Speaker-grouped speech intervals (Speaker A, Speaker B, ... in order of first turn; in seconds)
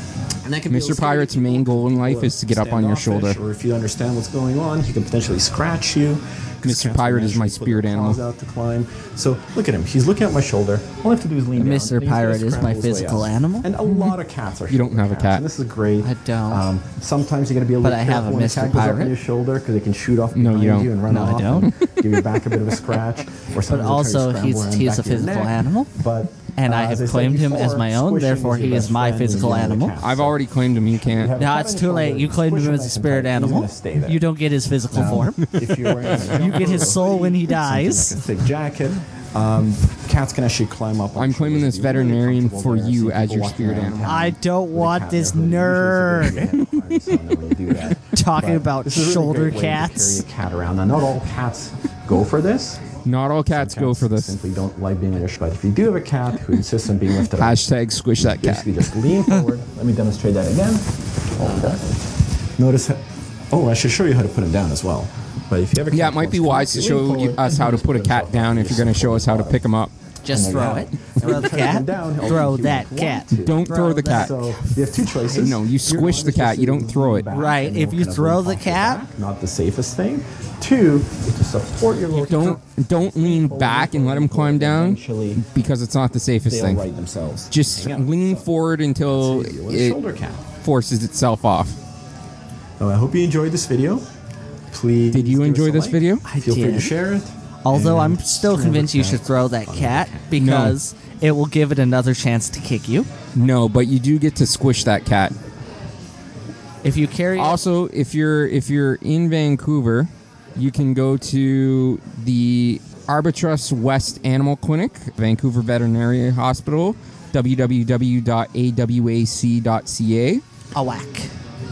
Speaker A: 0.4-30.4, 31.0-34.2, 34.9-52.9, 53.5-57.6, 58.4-61.9, 62.6-69.6, 70.3-85.5, 86.5-88.5, 89.1-90.5, 92.8-94.1, 94.7-100.4
Speaker B: 0.7-3.4, 6.6-8.2, 14.7-15.4, 20.4-20.9, 30.0-31.3, 41.2-44.0, 53.0-54.3, 57.3-58.6, 65.9-69.9, 73.4-74.4, 75.3-77.2, 82.1-86.8, 87.5-90.0, 90.6-91.8, 95.1-96.2, 100.4-100.8, 103.3-105.3, 107.4-120.4
Speaker C: 11.6-13.7, 16.0-16.6, 17.8-19.1, 21.1-21.7, 23.7-25.9, 26.6-29.9, 31.4-35.5, 36.4-38.2, 44.0-46.4, 48.1-50.2, 70.2-74.3, 77.3-79.0, 96.2-96.9, 97.6-103.1, 106.8-107.6, 120.8-121.3